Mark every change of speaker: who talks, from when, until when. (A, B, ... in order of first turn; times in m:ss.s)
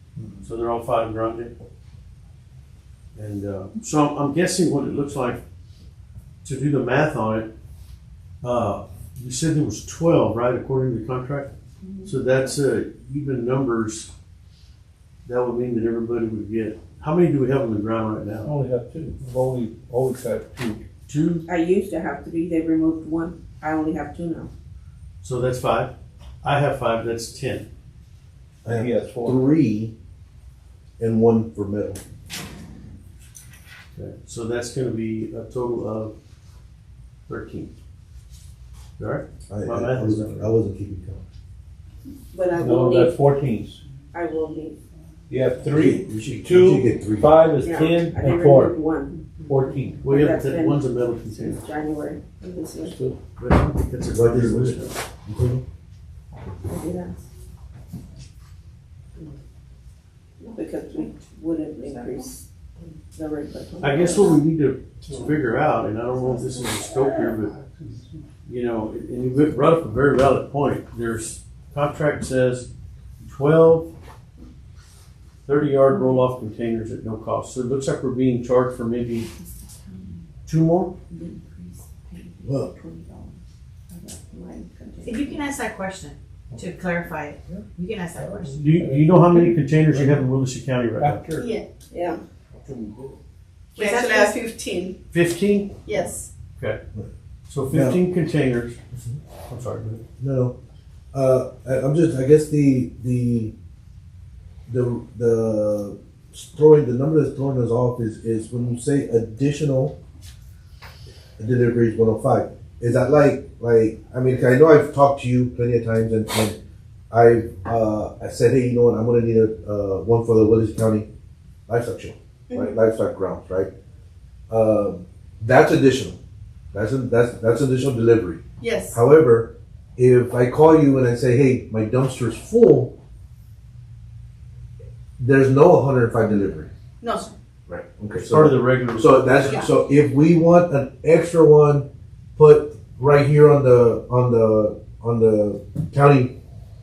0:00.4-0:01.5 A
0:03.1-0:05.4 A
0:06.4-0:07.5 A
0:08.4-0:11.5 A
0:11.8-0:12.1 B
0:12.0-0:14.1 A
0:15.2-0:18.5 A
0:18.4-0:20.8 C
0:21.1-0:21.4 A
0:21.5-0:24.5 B
0:25.2-0:27.7 A
0:28.6-0:29.9 D
0:28.6-0:29.4 C
0:31.0-0:32.0 D
0:33.9-0:36.1 A
0:37.3-0:37.7 A
0:39.0-0:40.5 A
0:39.5-0:41.2 D
0:42.3-0:43.2 B
0:42.5-0:43.8 C
0:44.1-0:44.8 B
0:45.3-0:48.8 C
0:45.7-0:47.3 D
0:47.6-0:49.3 B
0:49.4-0:50.1 C
0:50.0-0:51.6 A
0:50.0-0:50.9 B
0:51.4-0:53.0 B
0:52.8-0:53.2 C
0:53.4-0:55.0 A
0:54.1-0:55.6 D
0:56.6-0:57.2 B
1:00.4-1:02.4 B
1:03.1-1:04.4 B
1:03.8-1:07.6 A
1:08.4-1:12.7 A
1:13.2-1:13.9 A
1:15.4-1:19.3 A
1:15.9-1:16.2 B
1:19.3-1:20.3 B
1:20.4-1:20.9 A
1:21.1-1:25.4 B
1:22.4-1:22.7 D
1:25.0-1:28.6 E
1:28.1-1:30.2 C
1:28.6-1:31.2 A
1:31.0-1:31.5 C
1:31.4-1:31.6 F
1:31.9-1:32.2 B
1:32.5-1:33.2 C
1:33.8-1:34.4 E
1:33.8-1:35.0 F
1:35.1-1:35.8 A
1:35.8-1:36.3 F
1:37.5-1:38.8 A
1:37.7-1:38.0 D
1:38.9-1:39.2 D
1:39.5-1:40.0 A
1:40.2-1:40.5 D
1:41.1-1:43.5 D
1:44.7-1:50.0 D
1:51.4-1:56.6 D
1:57.1-2:01.1 D
2:01.7-2:03.7 D
2:04.5-2:06.2 D
2:06.7-2:12.9 D
2:08.6-2:09.0 F
2:15.2-2:16.7 D
2:17.0-2:17.3 F
2:17.7-2:26.3 D
2:18.2-2:19.6 A